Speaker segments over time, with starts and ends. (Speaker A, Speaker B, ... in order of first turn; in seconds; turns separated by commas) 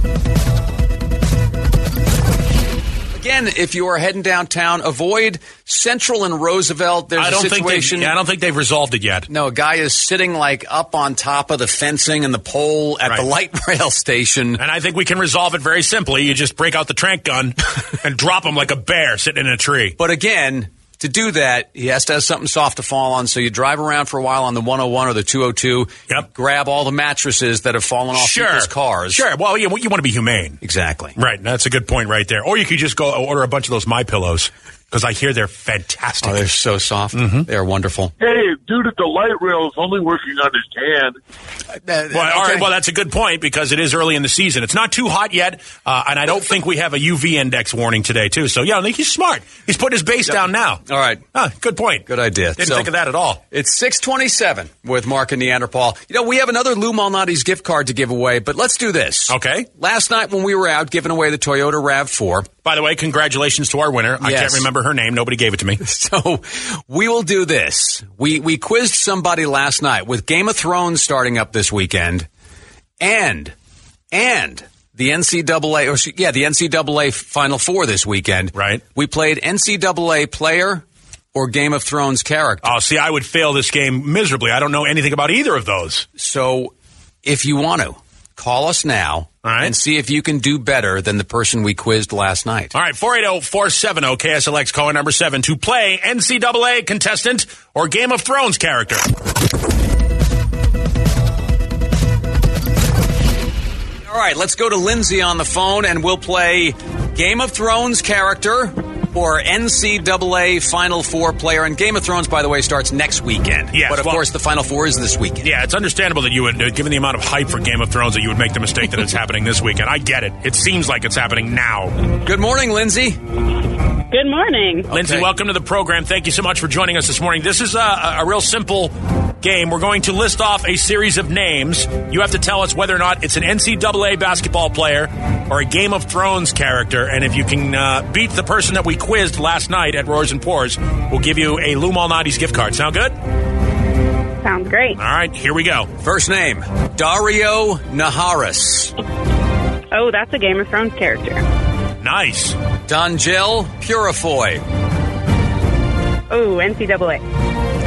Speaker A: 3.1-8.1, Speaker B: 7.2-9.3, Speaker A: 9.3-14.6, Speaker B: 14.6-19.9, Speaker A: 20.0-29.2, Speaker B: 28.1-30.6, Speaker A: 30.6-31.1, Speaker B: 31.1-36.5, Speaker A: 36.2-38.1, Speaker B: 37.1-37.5, Speaker C: 38.2-41.2, Speaker A: 41.8-42.7, Speaker B: 42.1-50.8, Speaker A: 50.9-51.2, Speaker B: 51.3-52.0, Speaker A: 52.1-52.9, Speaker B: 52.6-53.4, Speaker A: 53.5-62.5, Speaker B: 59.3-59.7, Speaker B: 62.6-65.8, Speaker A: 64.2-64.7, Speaker A: 65.8-72.2, Speaker A: 73.0-73.5, Speaker A: 74.1-82.7, Speaker B: 78.5-78.8, Speaker B: 82.6-86.0, Speaker A: 86.2-86.7, Speaker A: 87.2-92.7, Speaker B: 89.4-89.7, Speaker B: 92.7-99.0, Speaker A: 104.1-115.5, Speaker B: 113.7-114.2, Speaker B: 115.4-122.0, Speaker A: 122.2-123.2, Speaker D: 124.1-124.9, Speaker B: 124.9-143.2, Speaker A: 125.0-125.3, Speaker D: 144.4-145.0, Speaker B: 145.0-145.9, Speaker A: 146.0-148.9, Speaker D: 149.9-151.4, Speaker B: 152.0-152.6, Speaker A: 152.9-154.6, Speaker D: 156.3-157.2